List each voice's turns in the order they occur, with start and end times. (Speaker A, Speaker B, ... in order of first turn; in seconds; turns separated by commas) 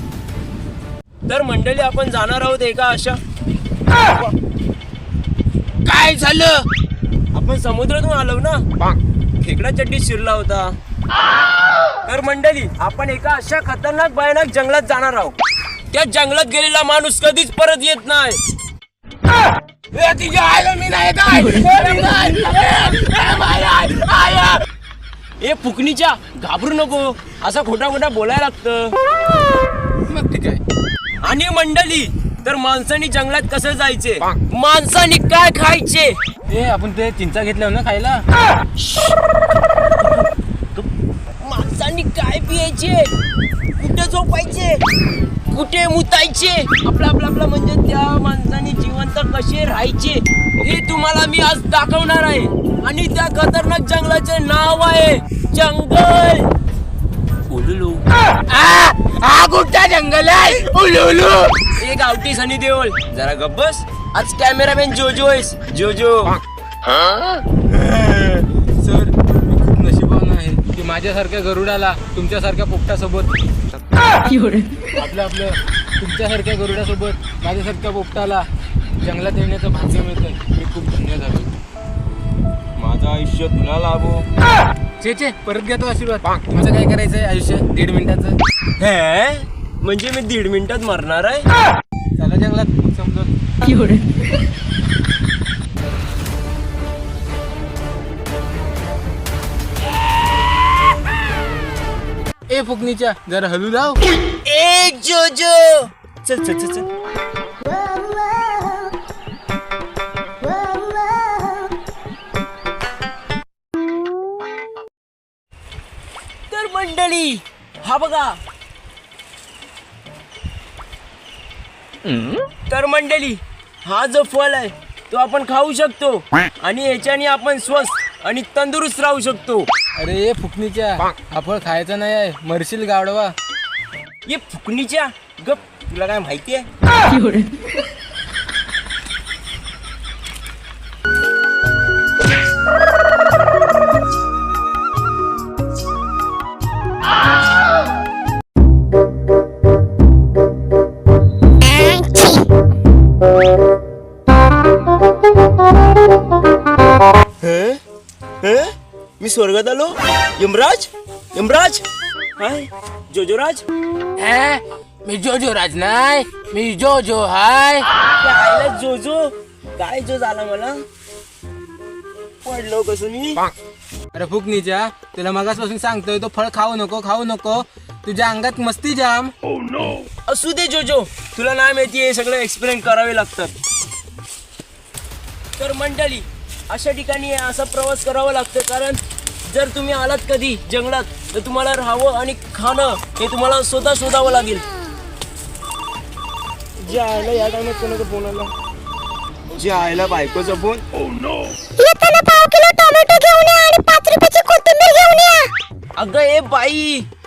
Speaker A: 1.3-3.2, Speaker A: 4.0-4.3, Speaker B: 5.8-6.7, Speaker A: 7.3-8.7, Speaker A: 9.4-10.8, Speaker A: 12.1-15.4, Speaker A: 15.9-18.4, Speaker B: 19.9-24.6, Speaker A: 25.4-29.0, Speaker B: 30.1-30.6, Speaker A: 31.2-36.2, Speaker B: 36.5-38.2, Speaker A: 38.8-39.2, Speaker A: 40.0-40.9, Speaker A: 41.4-43.1, Speaker A: 43.8-44.8, Speaker A: 45.5-56.5, Speaker A: 57.5-58.0, Speaker B: 58.5-61.6, Speaker A: 61.8-68.4, Speaker B: 68.7-73.4, Speaker B: 74.9-78.5, Speaker B: 79.0-81.5, Speaker A: 82.8-84.3, Speaker B: 85.0-88.4, Speaker A: 88.8-91.5, Speaker B: 92.2-93.8, Speaker B: 102.5-104.0, Speaker A: 104.5-106.9, Speaker A: 107.7-108.8, Speaker A: 110.4-111.6, Speaker A: 116.5-118.4, Speaker A: 122.7-129.7, Speaker B: 130.0-133.3, Speaker A: 134.3-136.7, Speaker A: 157.4-157.8, Speaker A: 158.4-161.8, Speaker A: 162.4-163.6, Speaker B: 164.2-167.9, Speaker A: 168.2-170.8, Speaker A: 172.4-173.4, Speaker B: 174.1-179.3, Speaker A: 180.3-183.5, Speaker A: 185.6-194.7, Speaker A: 196.8-198.5, Speaker A: 199.5-200.8, Speaker C: 201.8-205.5, Speaker A: 206.0-207.1